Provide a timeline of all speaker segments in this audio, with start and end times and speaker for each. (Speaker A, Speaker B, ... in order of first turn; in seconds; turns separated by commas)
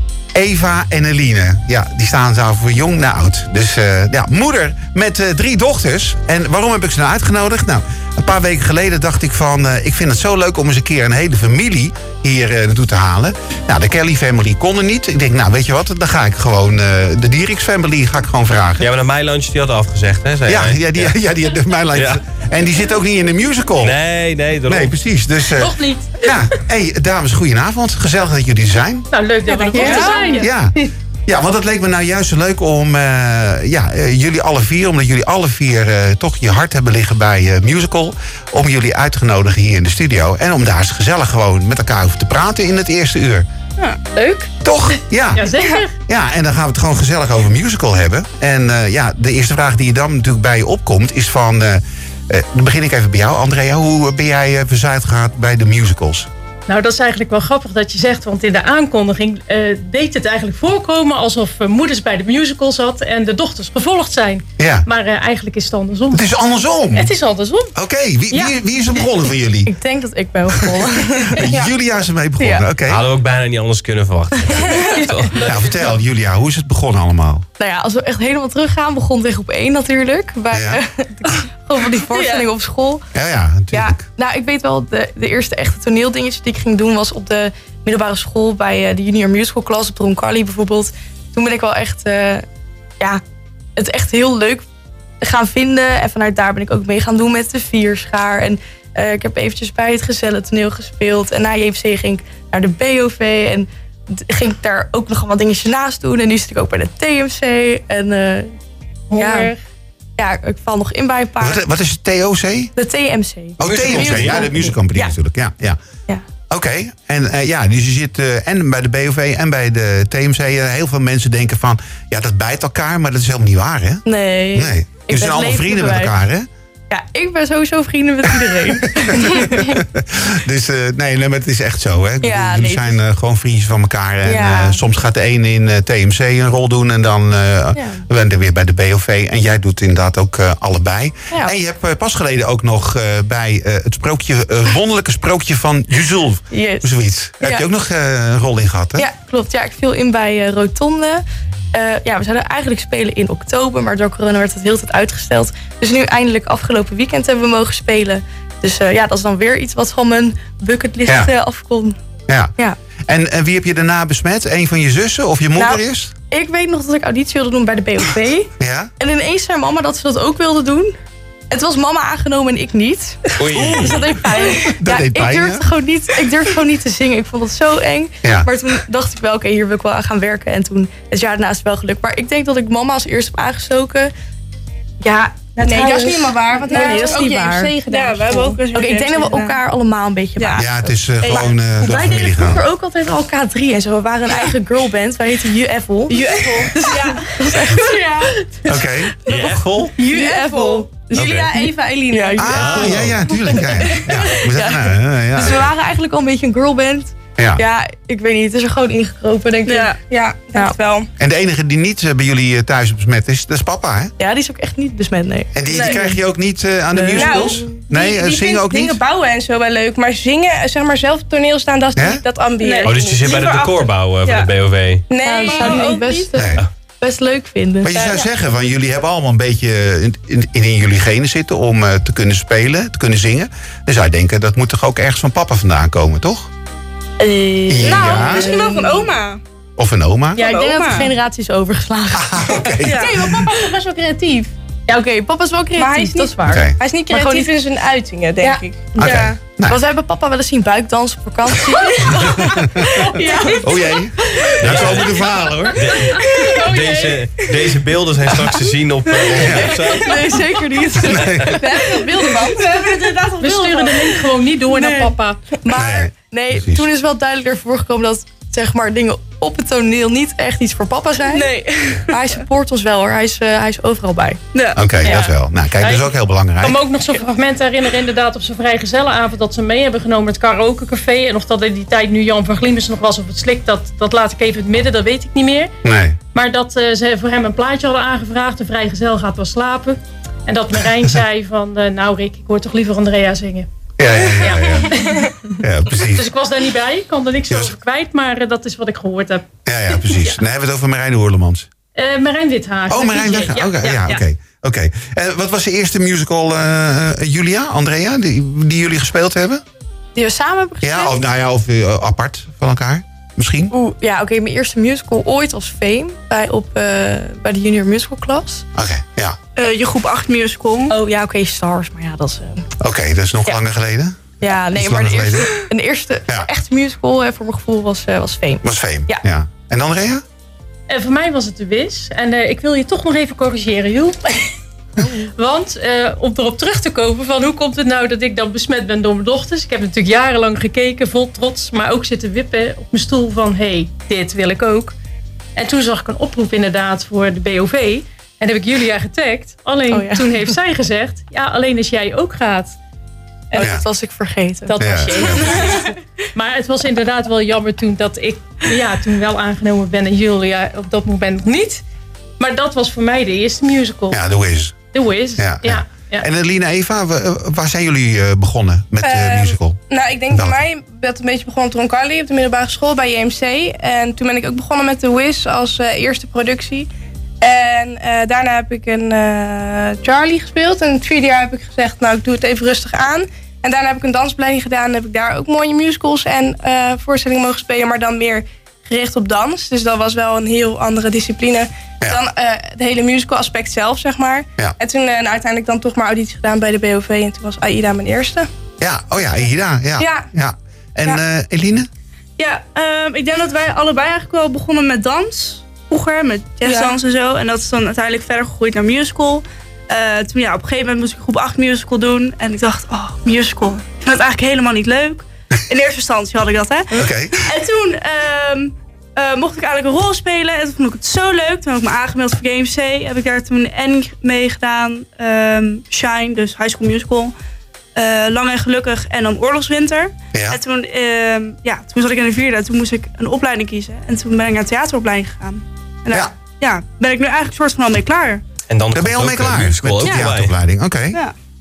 Speaker A: 0.3-18.9, Speaker B: 18.8-21.1, Speaker A: 20.5-24.0, Speaker B: 21.9-22.2, Speaker B: 23.8-25.0, Speaker A: 24.7-29.1, Speaker C: 25.6-26.5, Speaker C: 29.1-30.9, Speaker D: 29.5-30.5, Speaker E: 29.7-30.4, Speaker F: 29.8-30.3, Speaker A: 30.4-30.8, Speaker A: 31.3-43.5, Speaker C: 44.1-44.5, Speaker A: 44.6-45.5, Speaker C: 45.3-45.9, Speaker A: 46.1-56.3, Speaker C: 56.7-66.4, Speaker A: 64.6-64.9, Speaker A: 66.1-67.1, Speaker C: 66.9-67.7, Speaker A: 67.7-69.7, Speaker D: 69.7-71.6, Speaker A: 71.3-73.1, Speaker D: 72.4-72.6, Speaker B: 72.8-75.4, Speaker D: 74.4-74.8, Speaker A: 75.4-77.4, Speaker D: 77.6-83.0, Speaker A: 80.5-80.8, Speaker F: 82.2-82.4, Speaker A: 83.1-84.0, Speaker D: 83.7-92.5, Speaker D: 93.8-94.7, Speaker D: 95.2-108.5, Speaker C: 109.1-109.6, Speaker D: 109.1-109.5, Speaker D: 110.2-111.6, Speaker A: 111.4-112.7, Speaker D: 112.8-115.1, Speaker A: 113.6-115.8, Speaker B: 113.6-114.5, Speaker A: 116.5-124.0, Speaker D: 124.0-126.1, Speaker A: 124.5-126.5, Speaker D: 126.9-129.8, Speaker A: 129.0-149.1, Speaker D: 132.2-133.0, Speaker D: 134.2-134.8, Speaker D: 137.8-138.1, Speaker D: 146.5-146.9, Speaker D: 147.4-147.7, Speaker D: 149.0-162.0, Speaker A: 162.3-162.5, Speaker A: 163.1-166.1, Speaker D: 165.6-170.9, Speaker A: 168.6-168.9, Speaker D: 171.5-184.1, Speaker B: 173.4-174.1, Speaker A: 173.5-175.7, Speaker A: 178.2-178.5, Speaker D: 185.0-187.8, Speaker E: 185.6-188.6, Speaker F: 186.7-187.2, Speaker F: 187.8-189.5, Speaker D: 188.7-198.4, Speaker F: 190.4-190.6, Speaker A: 190.6-192.6, Speaker F: 196.2-197.6, Speaker E: 196.2-198.0, Speaker A: 198.7-199.6, Speaker B: 199.2-200.0, Speaker D: 200.0-201.1, Speaker E: 200.0-202.9, Speaker A: 201.2-201.5, Speaker B: 201.2-201.4, Speaker D: 202.1-202.9, Speaker A: 202.4-205.7, Speaker B: 202.5-203.3, Speaker D: 203.5-209.9, Speaker A: 207.4-207.6, Speaker F: 209.7-210.0, Speaker E: 210.0-211.1, Speaker A: 211.2-214.1, Speaker D: 214.2-216.1, Speaker A: 215.5-219.0, Speaker E: 215.7-216.0, Speaker B: 217.0-217.3, Speaker E: 217.2-223.5, Speaker D: 217.3-217.8, Speaker A: 222.0-222.2, Speaker F: 222.6-224.5, Speaker B: 222.9-225.1, Speaker E: 225.1-226.3, Speaker D: 225.2-227.9, Speaker F: 225.2-226.2, Speaker A: 226.4-226.6, Speaker A: 227.8-236.5, Speaker F: 227.9-228.2, Speaker D: 237.2-239.1, Speaker A: 237.7-238.5, Speaker F: 237.8-239.4, Speaker A: 239.8-240.4, Speaker F: 240.4-241.1, Speaker D: 240.4-247.5, Speaker A: 242.1-243.4, Speaker F: 242.8-243.2, Speaker E: 242.9-243.7, Speaker E: 245.8-249.3, Speaker A: 246.5-246.7, Speaker D: 248.4-253.6, Speaker A: 248.9-249.8, Speaker F: 249.1-249.3, Speaker A: 252.2-252.9, Speaker E: 253.2-253.7, Speaker A: 253.6-255.9, Speaker B: 254.6-260.4, Speaker C: 256.3-257.4, Speaker A: 259.4-259.8, Speaker D: 259.5-262.9, Speaker A: 261.1-261.6, Speaker F: 261.8-265.1, Speaker C: 263.4-265.4, Speaker D: 265.6-274.4, Speaker A: 265.7-266.9, Speaker F: 271.2-272.2, Speaker F: 274.5-275.1, Speaker A: 274.8-276.8, Speaker C: 275.0-285.7, Speaker A: 285.8-286.2, Speaker C: 286.3-293.7, Speaker A: 294.0-294.9, Speaker C: 294.3-295.4, Speaker A: 295.6-296.2, Speaker C: 295.9-300.4, Speaker A: 299.7-301.7, Speaker C: 301.9-304.2, Speaker A: 302.9-309.6, Speaker D: 310.1-311.2, Speaker A: 310.8-313.7, Speaker D: 313.7-318.6, Speaker A: 318.8-319.4, Speaker F: 319.6-320.9, Speaker D: 320.9-322.7, Speaker A: 322.8-324.2, Speaker D: 324.4-329.2, Speaker A: 324.7-325.6, Speaker A: 328.6-330.2, Speaker C: 330.9-334.5, Speaker D: 335.0-335.3, Speaker C: 335.4-344.9, Speaker C: 345.6-352.8, Speaker D: 349.9-350.5, Speaker D: 353.5-355.9, Speaker A: 353.6-353.8, Speaker C: 354.6-361.8, Speaker A: 354.8-355.8, Speaker C: 362.4-364.2, Speaker A: 364.1-364.8, Speaker C: 364.9-366.2, Speaker A: 365.4-370.6, Speaker E: 369.0-376.9, Speaker E: 377.4-398.5, Speaker A: 398.8-401.9, Speaker E: 400.0-400.3, Speaker F: 402.4-427.3, Speaker E: 406.6-406.9, Speaker A: 416.9-417.4, Speaker F: 427.9-438.4, Speaker A: 430.3-430.6, Speaker B: 438.7-440.6, Speaker A: 438.9-441.2